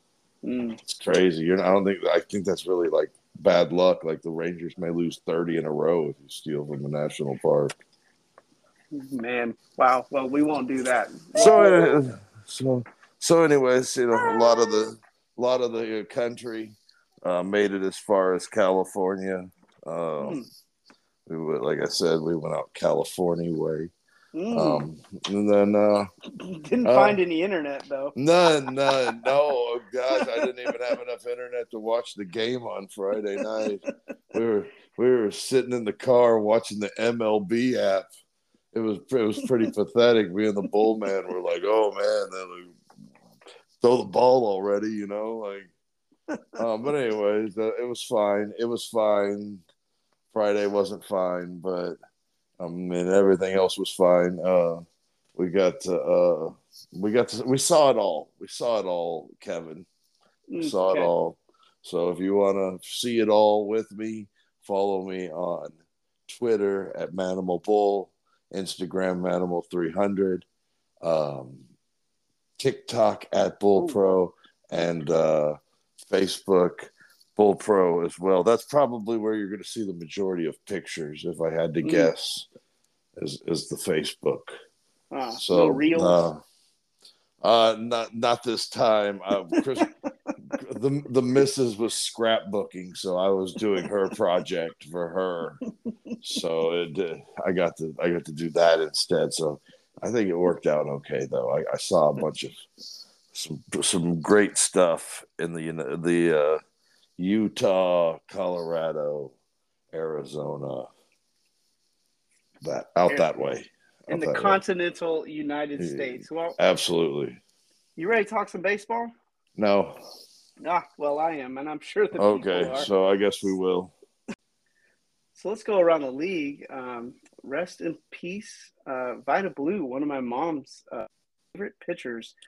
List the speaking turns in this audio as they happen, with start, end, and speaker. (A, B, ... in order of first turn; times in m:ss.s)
0:00.4-0:00.8 A
0:00.8-0:07.7 B
0:08.9-0:11.9 A
0:11.3-0:20.4 B
0:14.1-0:14.8 A
0:20.2-0:20.5 A
0:21.3-0:23.9 B
0:24.3-0:24.8 A
0:24.5-0:26.1 B
0:26.4-0:28.1 A
0:26.8-0:27.2 B
0:28.1-0:38.1 B
0:28.8-0:29.3 A
0:30.1-0:30.7 A
0:38.7-0:42.8 B
0:43.8-0:45.7 B
0:46.3-0:46.6 A
0:46.6-0:49.6 B
0:50.3-0:52.0 B
0:52.6-0:54.8 B
0:55.3-0:59.9 B
1:00.5-1:01.1 A
1:00.6-1:10.4 B
1:11.0-1:11.7 B
1:12.6-1:22.5 B
1:21.8-1:22.1 A
1:23.2-1:24.6 B
1:25.1-1:26.2 A
1:25.4-1:26.4 B
1:27.4-1:29.9 B
1:30.5-1:35.6 B
1:36.2-1:42.7 B
1:43.3-1:46.6 B
1:47.2-1:49.3 B
1:49.9-1:50.9 B
1:52.6-1:54.6 B
1:54.1-1:56.6 A
1:55.8-1:57.4 B
1:58.0-1:59.1 A
1:59.6-2:00.0 B
2:00.6-2:02.9 A
2:02.2-2:03.9 B
2:05.4-2:12.3 A